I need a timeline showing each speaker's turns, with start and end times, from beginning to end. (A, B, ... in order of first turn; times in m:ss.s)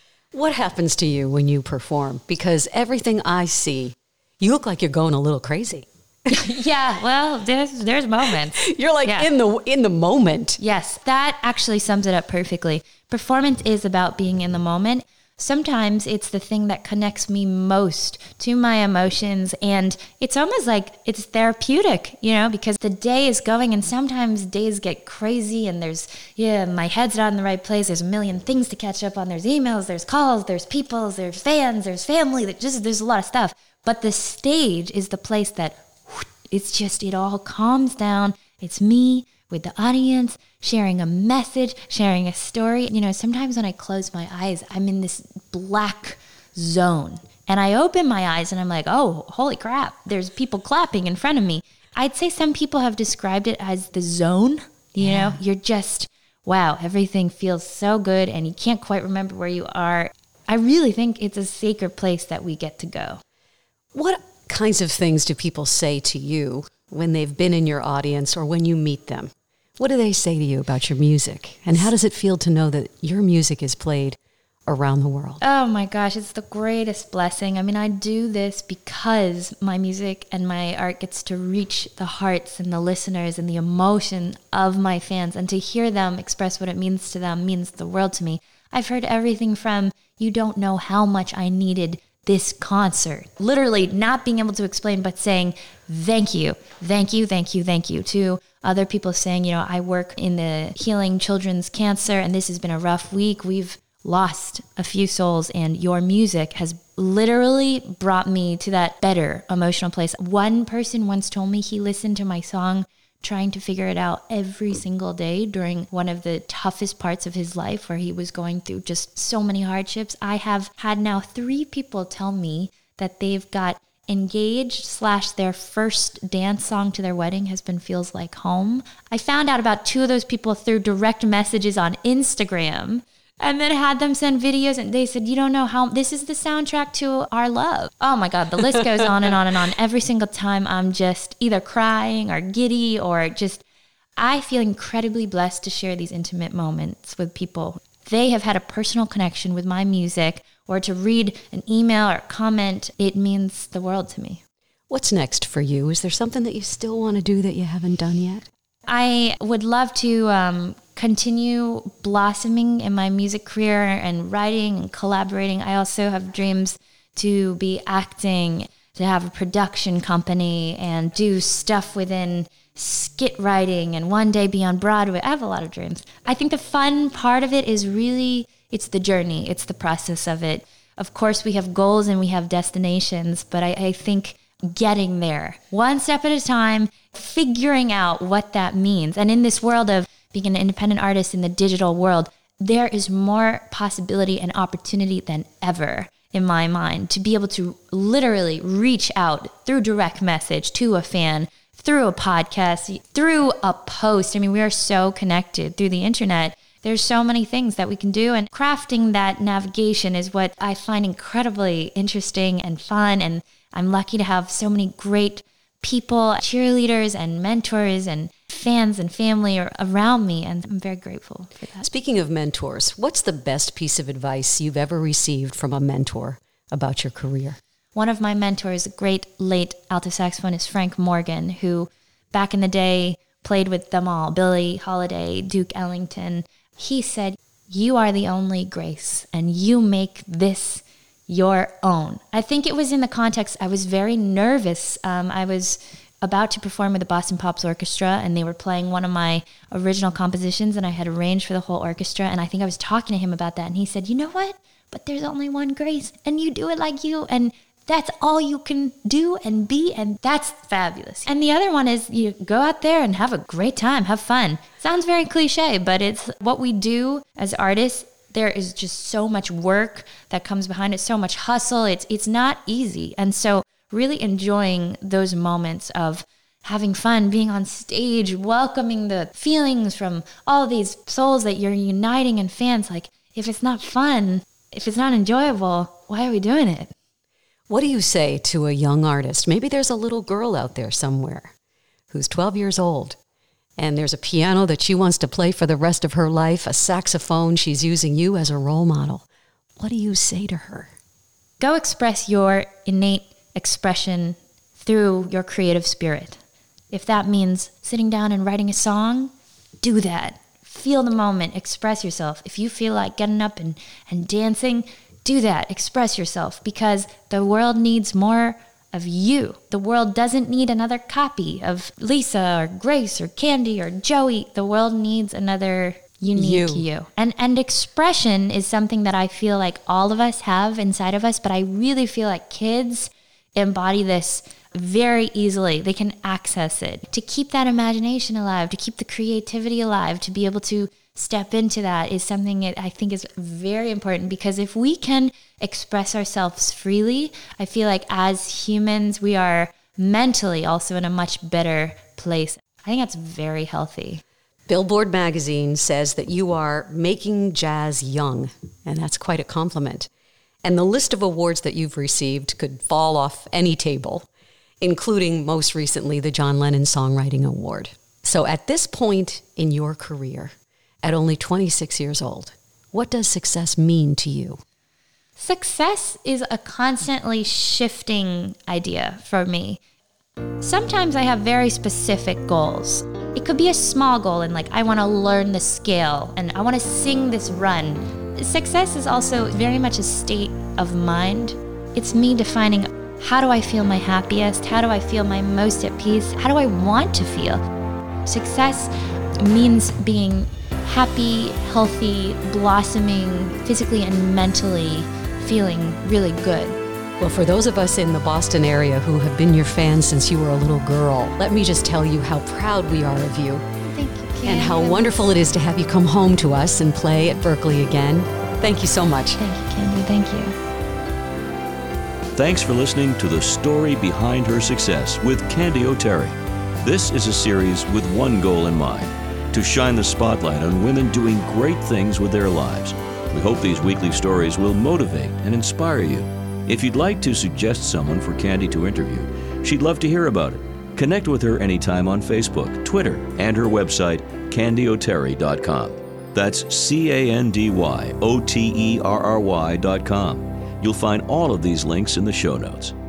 0:00.3-0:06.3 A
0:06.3-0:09.3 B
0:08.6-0:10.6 A
0:10.6-1:03.2 B
0:55.0-0:55.4 A
1:03.9-1:15.4 A
1:15.4-2:23.6 B
2:24.2-2:34.4 B
2:34.9-2:38.5 A
2:38.9-3:41.8 B
3:41.8-3:47.6 A
3:48.0-4:46.9 B
4:47.7-4:51.5 A
4:52.1-4:53.2 A
4:53.8-4:59.3 A
4:59.8-5:00.9 A
5:01.6-5:06.4 B
5:06.9-5:09.3 B
5:09.8-5:54.2 B
5:26.3-5:26.9 A
5:54.7-6:00.1 A
6:00.6-6:04.3 A
6:04.8-6:14.6 A
6:15.4-6:19.8 B
6:20.6-6:37.6 B
6:38.3-6:46.8 B
6:47.2-6:53.6 A
6:53.9-6:55.2 B
6:54.4-6:59.4 A
6:59.4-7:00.6 B
7:02.4-7:32.9 C